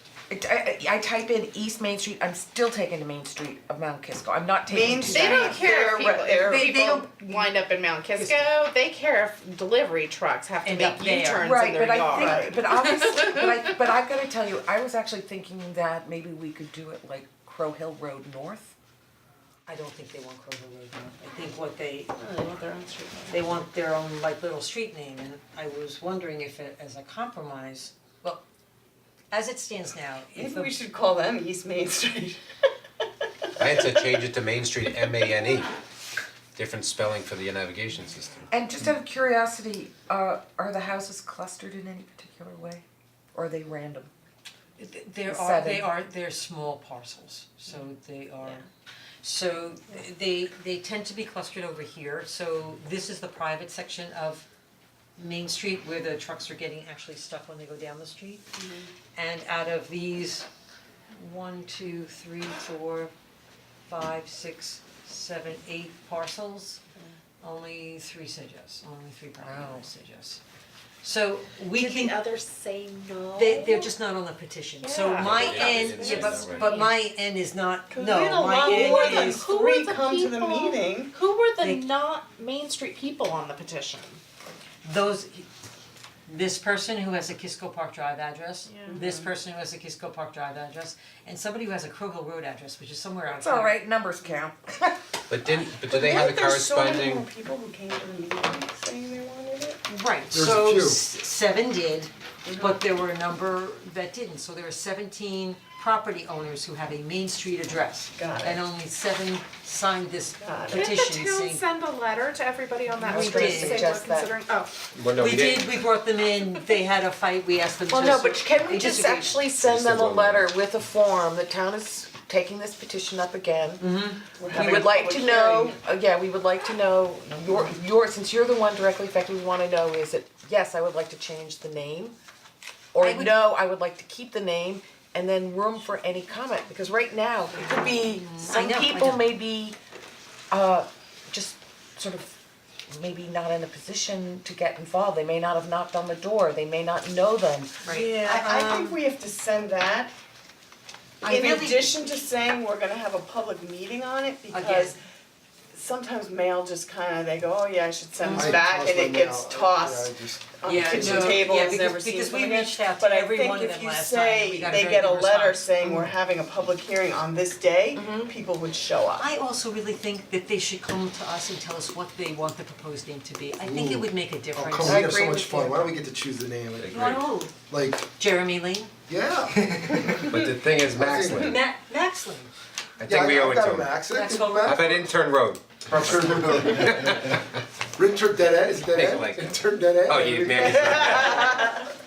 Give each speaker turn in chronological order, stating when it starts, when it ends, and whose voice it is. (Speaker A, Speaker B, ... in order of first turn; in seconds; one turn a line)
Speaker A: 0.3-7.1
Speaker B: 4.7-7.0
Speaker C: 5.0-13.4
Speaker D: 8.2-8.5
Speaker D: 10.6-11.5
Speaker A: 11.4-18.8
Speaker B: 12.2-12.5
Speaker D: 19.7-22.1
Speaker B: 22.2-23.4
Speaker D: 23.3-28.4
Speaker D: 29.3-30.8
Speaker B: 30.4-32.4
Speaker E: 33.6-35.7
Speaker E: 36.5-38.5
Speaker A: 38.5-44.1
Speaker D: 44.8-48.6
Speaker A: 45.3-45.9
Speaker D: 49.2-54.5
Speaker D: 55.2-58.4
Speaker B: 58.5-58.9
Speaker D: 59.2-60.5
Speaker D: 61.1-63.1
Speaker D: 63.9-66.8
Speaker D: 67.4-70.4
Speaker A: 69.4-69.9
Speaker D: 71.0-72.2
Speaker C: 71.8-73.9
Speaker D: 73.4-79.5
Speaker C: 74.8-76.8
Speaker E: 75.1-76.9
Speaker B: 77.9-81.1
Speaker C: 78.2-84.2
Speaker D: 81.6-81.9
Speaker D: 84.8-85.5
Speaker D: 86.3-93.8
Speaker C: 88.7-89.1
Speaker B: 88.8-89.3
Speaker A: 93.4-95.1
Speaker E: 95.3-97.3
Speaker B: 95.9-99.8
Speaker D: 99.9-111.6
Speaker F: 100.3-101.0
Speaker B: 102.5-102.8
Speaker B: 108.2-108.6
Speaker B: 110.4-110.9
Speaker C: 110.7-114.7
Speaker A: 113.0-114.4
Speaker D: 113.0-114.0
Speaker E: 114.9-115.7
Speaker D: 115.2-119.4
Speaker A: 117.9-123.9
Speaker E: 119.6-120.5
Speaker D: 123.8-124.2
Speaker B: 124.4-125.8
Speaker A: 124.5-132.2
Speaker B: 127.4-127.7
Speaker A: 132.9-139.8
Speaker D: 133.0-133.4
Speaker D: 137.6-139.3
Speaker A: 140.5-142.3
Speaker A: 142.9-147.8
Speaker D: 147.8-149.0
Speaker B: 147.9-150.1
Speaker D: 151.2-152.2
Speaker B: 151.2-155.0
Speaker D: 154.5-155.0
Speaker B: 155.7-169.3
Speaker D: 158.2-158.6
Speaker F: 158.3-161.5
Speaker D: 160.6-166.0
Speaker A: 167.9-168.3
Speaker D: 169.2-175.1
Speaker F: 173.6-178.1
Speaker A: 174.8-175.9
Speaker E: 176.8-177.2
Speaker D: 176.9-177.5
Speaker D: 178.2-178.9
Speaker F: 179.1-181.6
Speaker E: 179.5-181.6
Speaker D: 181.3-182.5
Speaker E: 183.0-184.0
Speaker F: 183.1-185.1
Speaker D: 184.1-184.9
Speaker E: 184.6-187.4
Speaker F: 185.9-187.4
Speaker F: 188.0-191.8
Speaker E: 188.8-191.8